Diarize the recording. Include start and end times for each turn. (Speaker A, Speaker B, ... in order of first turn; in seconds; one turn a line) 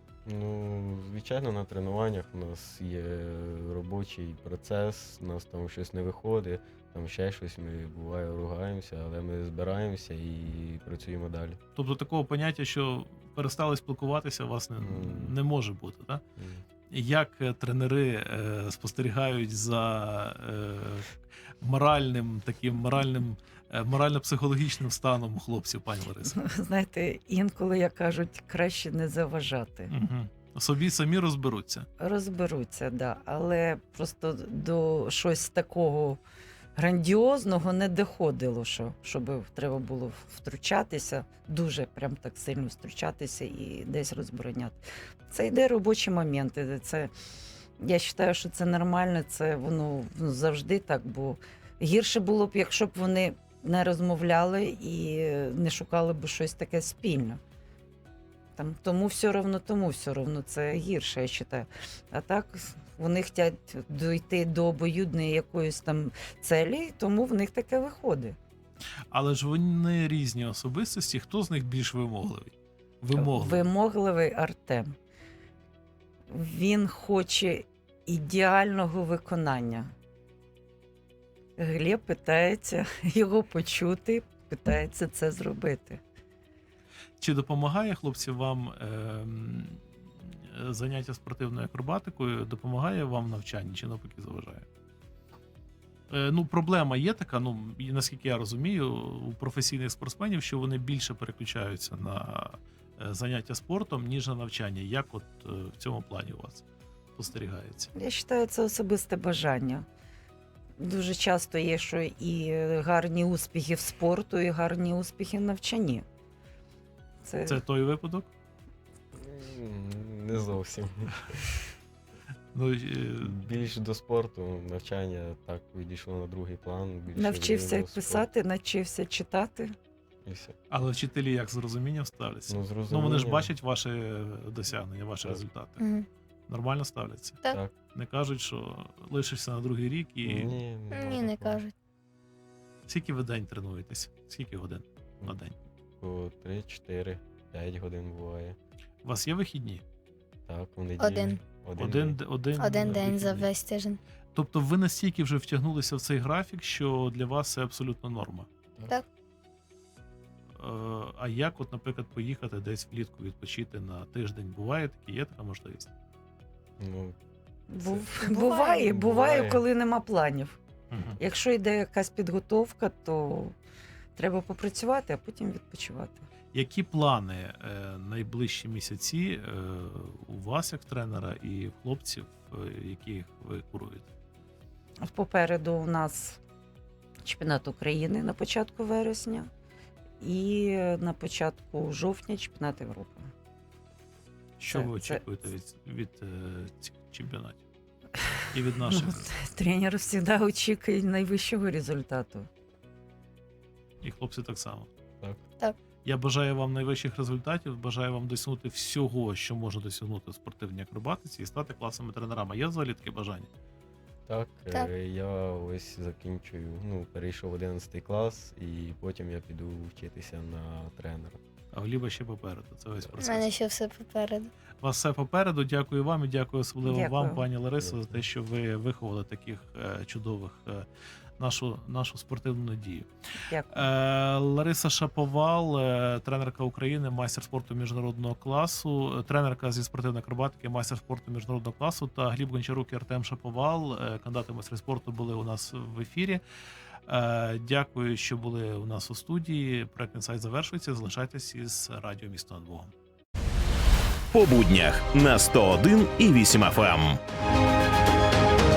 Speaker A: 0.3-11.6
Speaker B: 11.8-16.2
Speaker A: 14.8-15.4
Speaker A: 16.4-16.6
Speaker B: 16.9-21.1
Speaker B: 21.6-26.4
Speaker C: 26.2-29.9
Speaker B: 29.9-31.9
Speaker C: 32.0-36.2
Speaker C: 36.8-47.1
Speaker C: 47.8-57.4
Speaker C: 58.6-68.4
Speaker B: 69.1-73.7
Speaker C: 73.1-75.0
Speaker C: 76.3-79.9
Speaker C: 81.6-86.0
Speaker B: 87.2-94.7
Speaker B: 96.1-106.6
Speaker B: 107.2-107.9
Speaker C: 107.9-109.9
Speaker C: 110.8-116.0
Speaker C: 117.2-117.6
Speaker B: 117.5-118.3
Speaker A: 119.2-121.4
Speaker B: 122.5-123.4
Speaker A: 123.2-128.3
Speaker C: 127.1-129.8
Speaker A: 130.2-130.6
Speaker B: 130.7-135.8
Speaker A: 132.5-133.5
Speaker D: 135.8-136.1
Speaker B: 136.5-137.4
Speaker B: 137.9-140.6
Speaker A: 140.2-141.6
Speaker D: 140.9-141.7
Speaker B: 142.9-145.6
Speaker A: 146.0-148.6
Speaker B: 149.0-149.8
Speaker A: 150.5-152.2
Speaker D: 151.0-151.4
Speaker B: 151.8-153.5
Speaker D: 152.6-154.0
Speaker B: 154.3-158.5
Speaker B: 160.6-165.9
Speaker A: 166.8-167.2
Speaker C: 167.7-170.6
Speaker D: 168.2-168.9
Speaker A: 168.9-169.6
Speaker B: 170.9-171.2
Speaker C: 171.2-173.5
Speaker C: 174.2-176.2
Speaker B: 176.5-184.1
Speaker C: 185.0-186.4
Speaker C: 187.2-189.5
Speaker C: 190.2-193.3
Speaker B: 194.6-197.6
Speaker C: 194.7-195.2
Speaker B: 198.5-199.3
Speaker C: 198.8-202.5
Speaker B: 204.0-204.9
Speaker B: 206.1-213.5
Speaker A: 214.3-221.4
Speaker B: 221.7-223.6
Speaker D: 223.2-224.5
Speaker B: 224.8-230.9
Speaker C: 226.8-227.4
Speaker A: 227.8-228.2
Speaker B: 231.4-233.1
Speaker C: 233.4-233.9
Speaker B: 233.7-246.4
Speaker B: 247.1-252.9
Speaker E: 254.3-257.1